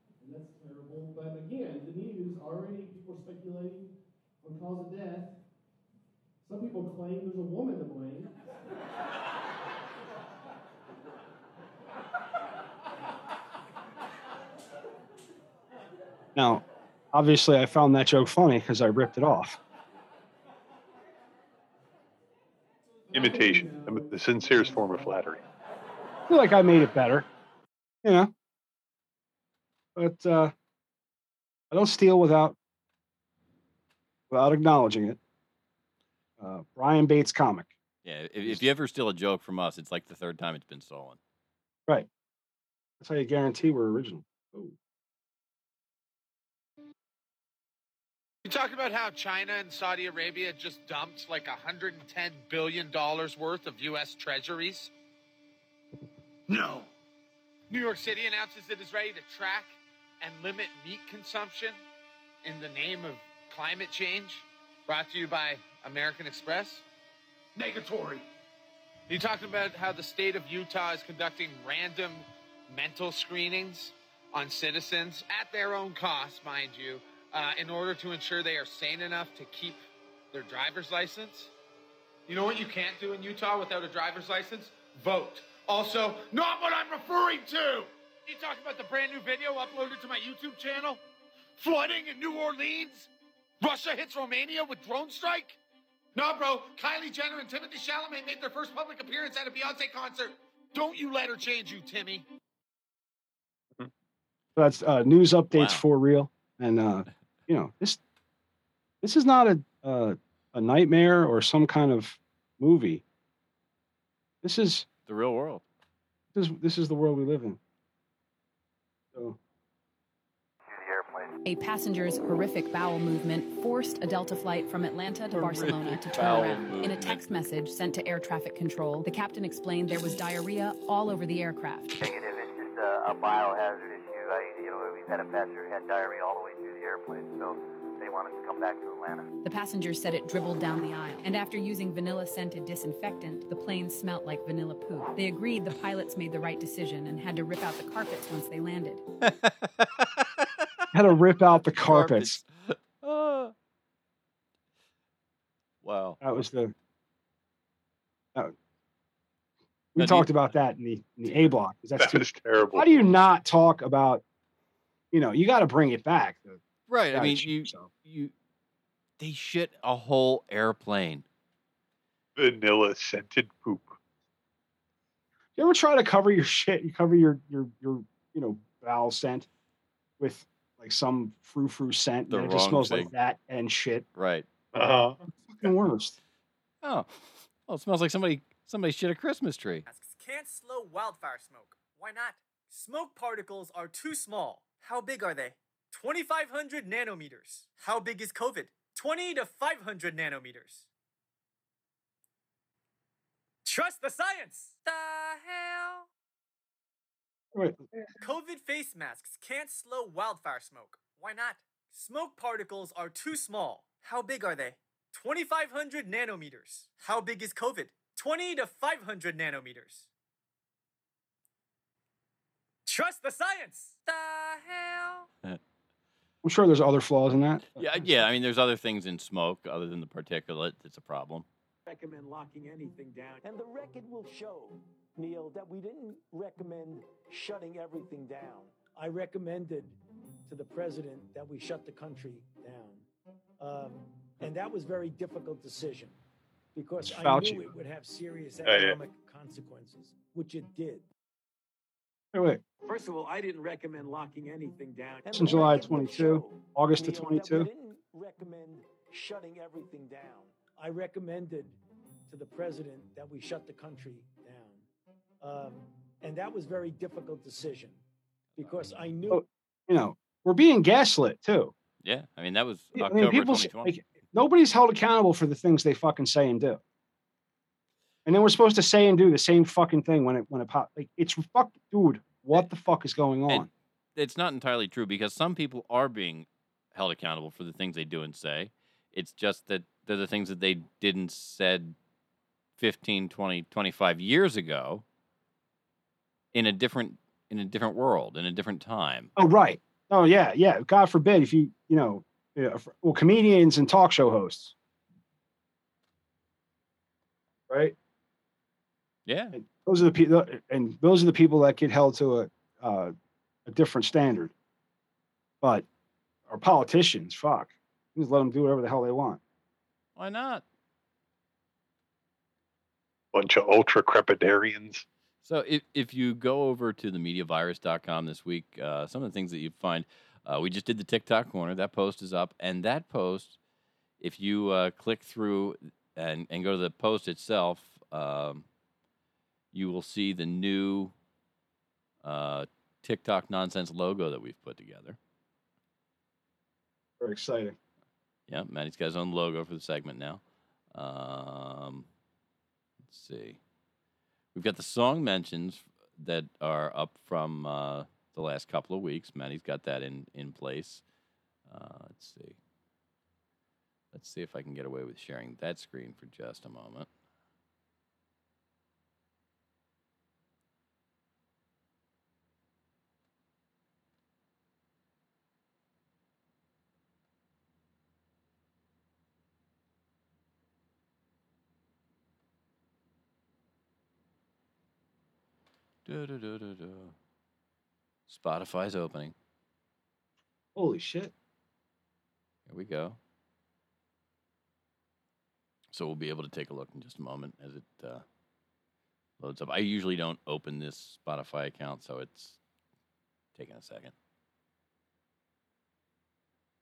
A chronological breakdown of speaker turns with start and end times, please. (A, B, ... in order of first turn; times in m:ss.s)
0:00.2-0:03.8 A
0:04.5-0:05.2 A
0:06.5-0:08.3 A
0:16.3-0:19.6 B
0:23.1-0:25.4 C
0:26.3-0:27.2 B
0:28.0-0:28.3 B
0:30.0-0:30.5 B
0:31.7-0:32.6 B
0:34.3-0:35.2 B
0:36.4-0:37.7 B
0:38.0-0:41.2 D
0:43.0-0:44.7 B
0:48.5-0:54.9 E
0:57.7-0:59.7 E
1:00.3-1:01.8 E
1:02.5-1:06.8 E
1:07.7-1:08.2 E
1:09.1-1:12.2 E
1:12.8-1:13.9 E
1:14.6-1:19.8 E
1:20.4-1:21.5 E
1:22.3-1:29.6 E
1:30.1-1:31.0 E
1:31.6-1:33.0 E
1:33.8-1:35.5 E
1:36.2-1:42.2 E
1:44.6-1:48.0 B
1:45.5-1:45.8 D
1:49.0-1:53.0 B
1:54.4-1:54.8 B
1:55.1-1:55.6 D
1:56.3-1:57.6 B
2:00.7-2:01.3 F
2:01.4-2:12.0 G
2:05.3-2:07.2 D
2:12.0-2:19.3 F
2:19.4-2:29.0 G
2:29.2-2:30.2 D
2:30.9-2:32.4 B
2:31.8-2:33.5 D
2:35.8-2:36.2 D
2:36.2-2:36.7 B
2:40.0-2:44.2 B
2:40.0-2:40.3 D
2:42.0-2:43.2 C
2:45.1-2:46.6 B
2:46.9-2:48.3 D
2:47.1-2:47.9 B
2:49.2-2:51.2 D
2:52.4-2:54.0 C
2:55.6-2:59.5 B
3:00.2-3:04.0 B
3:02.3-3:03.1 D
3:04.2-3:04.4 D
3:04.7-3:05.7 C
3:05.5-3:06.2 B
3:06.8-3:09.8 D
3:09.8-3:20.9 H
3:23.6-3:26.1 H
3:27.5-3:27.8 B
3:28.2-3:40.1 H
3:42.8-3:45.2 H
3:46.4-3:48.2 B
3:47.8-3:51.4 D
3:51.8-4:00.0 I
4:00.5-4:03.0 I
4:03.6-4:06.2 I
4:06.7-4:11.0 I
4:07.0-4:07.7 B
4:08.6-4:09.0 C
4:12.3-4:12.6 B
4:12.8-4:21.8 I
4:15.3-4:17.7 B
4:22.3-4:24.8 I
4:25.4-4:28.0 I
4:28.6-4:29.4 I
4:29.3-4:31.7 B
4:32.0-4:33.9 D
4:32.9-4:36.8 B
4:38.2-4:43.7 B
4:43.5-4:52.0 D
4:52.8-4:55.0 D
4:56.5-4:59.3 D
4:59.4-5:04.7 B
5:07.7-5:07.9 B
5:09.2-5:09.6 D
5:09.5-5:13.1 B
5:13.6-5:14.5 B
5:16.5-5:19.4 B
5:20.2-5:20.6 D
5:23.3-5:25.0 C
5:25.4-5:33.6 D
5:34.2-5:38.6 D
5:39.7-5:41.1 D
5:42.2-5:45.2 D
5:47.2-5:47.8 B
5:48.5-5:50.4 D
5:50.9-5:52.1 D
5:53.1-5:53.6 D
5:54.5-6:01.0 D
6:01.7-6:02.6 D
6:04.1-6:07.1 D
6:26.0-6:27.1 D
6:28.3-6:29.3 D
6:30.7-6:31.3 B
6:32.7-6:33.2 D
6:35.9-6:38.2 D
6:39.4-6:42.6 D
6:43.5-6:44.1 D